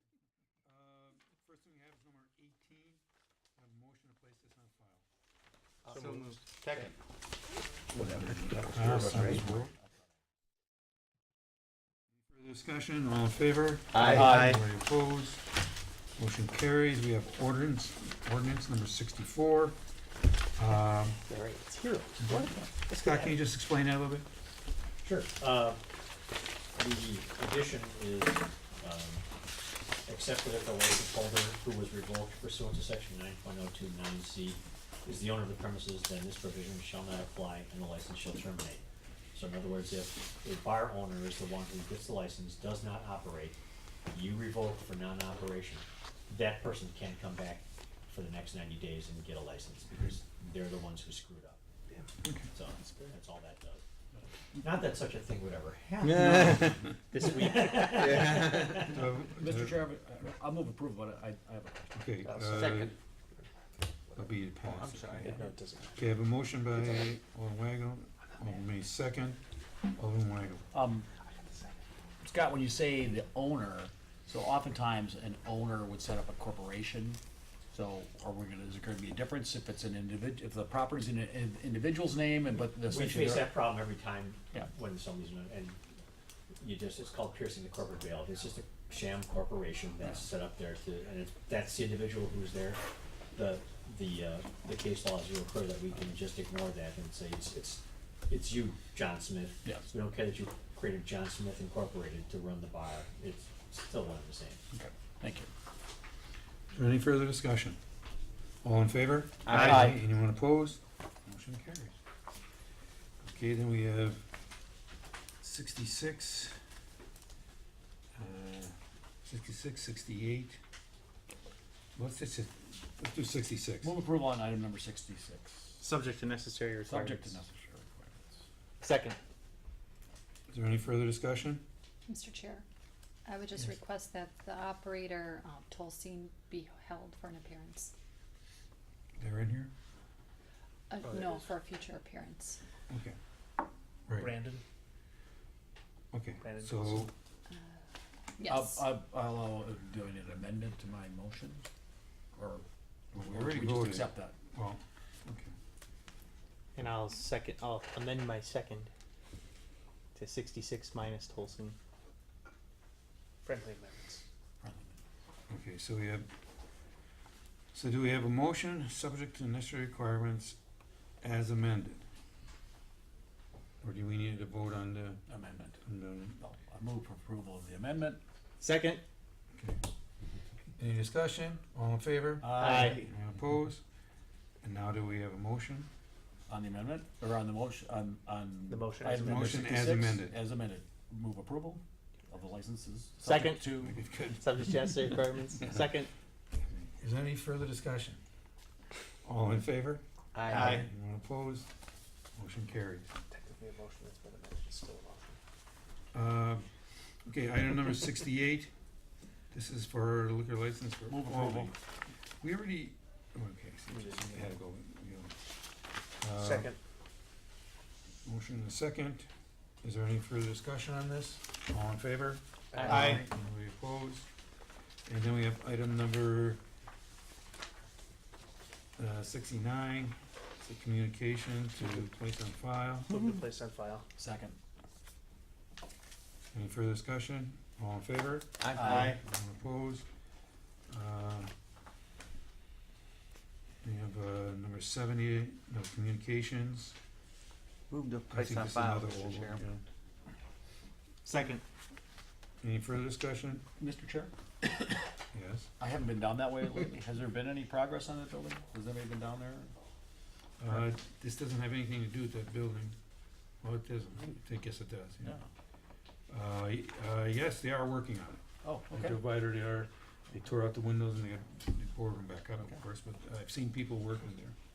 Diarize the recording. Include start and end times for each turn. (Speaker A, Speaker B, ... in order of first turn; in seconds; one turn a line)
Speaker A: 0.6-3.0
Speaker A: 3.6-5.0
Speaker B: 5.8-6.9
Speaker C: 5.9-6.3
Speaker D: 7.9-9.7
Speaker A: 8.2-9.7
Speaker B: 8.7-9.4
Speaker A: 12.3-15.5
Speaker B: 13.9-14.6
Speaker D: 14.0-14.5
Speaker A: 16.2-19.8
Speaker A: 20.5-21.2
Speaker B: 21.3-23.3
Speaker E: 23.0-23.3
Speaker A: 23.0-24.3
Speaker E: 25.0-25.8
Speaker E: 26.8-29.3
Speaker E: 30.1-43.6
Speaker E: 44.1-51.6
Speaker E: 52.5-53.8
Speaker E: 54.5-58.9
Speaker B: 56.1-58.8
Speaker A: 56.4-56.7
Speaker A: 58.8-59.9
Speaker D: 59.3-62.1
Speaker A: 61.9-62.9
Speaker C: 62.2-62.7
Speaker B: 62.5-62.9
Speaker C: 64.1-66.0
Speaker A: 64.1-65.3
Speaker D: 64.9-65.4
Speaker A: 66.0-69.4
Speaker A: 69.9-70.7
Speaker D: 70.7-71.1
Speaker C: 71.2-71.8
Speaker D: 72.2-77.2
Speaker D: 77.7-83.5
Speaker E: 82.8-85.8
Speaker E: 86.5-92.8
Speaker E: 93.3-104.6
Speaker D: 104.7-105.5
Speaker A: 106.7-107.8
Speaker A: 108.6-111.9
Speaker B: 109.5-110.0
Speaker D: 109.5-110.0
Speaker A: 113.2-114.2
Speaker A: 115.4-116.6
Speaker A: 118.1-120.6
Speaker A: 122.0-124.0
Speaker D: 123.8-125.8
Speaker B: 125.8-127.4
Speaker D: 126.8-128.4
Speaker B: 128.8-129.2
Speaker A: 130.5-131.6
Speaker F: 132.1-132.6
Speaker F: 133.2-137.9
Speaker A: 139.2-139.7
Speaker F: 140.9-142.6
Speaker C: 141.0-141.5
Speaker A: 142.9-143.2
Speaker A: 144.1-144.3
Speaker C: 144.2-144.6
Speaker A: 146.1-147.1
Speaker C: 146.4-147.1
Speaker F: 148.4-148.9
Speaker D: 148.4-151.7
Speaker D: 152.3-154.3
Speaker A: 153.1-155.5
Speaker B: 156.8-158.9
Speaker B: 160.1-161.8
Speaker C: 163.4-164.2
Speaker D: 164.6-165.0
Speaker A: 165.5-166.3
Speaker A: 167.7-170.6
Speaker A: 171.2-172.0
Speaker A: 173.8-175.2
Speaker D: 175.3-175.8
Speaker A: 175.8-176.4
Speaker D: 176.4-178.2
Speaker B: 178.6-179.0
Speaker A: 179.5-179.8
Speaker A: 180.8-183.8
Speaker D: 182.4-183.1
Speaker B: 182.5-183.1
Speaker A: 184.6-185.9
Speaker D: 186.5-194.0
Speaker C: 188.7-189.1
Speaker B: 188.9-189.3
Speaker A: 189.1-190.4
Speaker B: 193.2-196.1
Speaker A: 193.8-195.9
Speaker A: 196.6-198.2
Speaker A: 199.2-201.7
Speaker B: 200.3-200.8
Speaker C: 200.5-200.8
Speaker A: 202.3-203.1
Speaker C: 203.3-205.4
Speaker A: 206.1-206.7
Speaker A: 207.2-208.7
Speaker A: 209.5-211.8
Speaker D: 211.1-211.8
Speaker A: 212.4-215.3
Speaker C: 213.9-214.4
Speaker A: 216.2-216.7
Speaker C: 216.4-216.8
Speaker A: 218.2-219.3
Speaker A: 219.8-224.3
Speaker C: 222.7-223.2
Speaker B: 222.8-223.2
Speaker A: 225.1-226.6
Speaker A: 229.0-233.1
Speaker C: 233.1-234.0
Speaker D: 234.2-234.6
Speaker A: 236.5-240.0
Speaker B: 238.6-239.2
Speaker D: 238.7-239.1
Speaker A: 240.9-241.5
Speaker A: 243.8-246.9
Speaker B: 247.9-249.6
Speaker A: 248.3-249.8
Speaker B: 251.2-251.6
Speaker A: 252.6-253.6
Speaker D: 253.8-254.9
Speaker A: 255.3-255.7
Speaker D: 255.8-259.7
Speaker A: 260.6-263.0
Speaker A: 263.6-265.4
Speaker A: 266.3-274.6
Speaker D: 268.6-269.2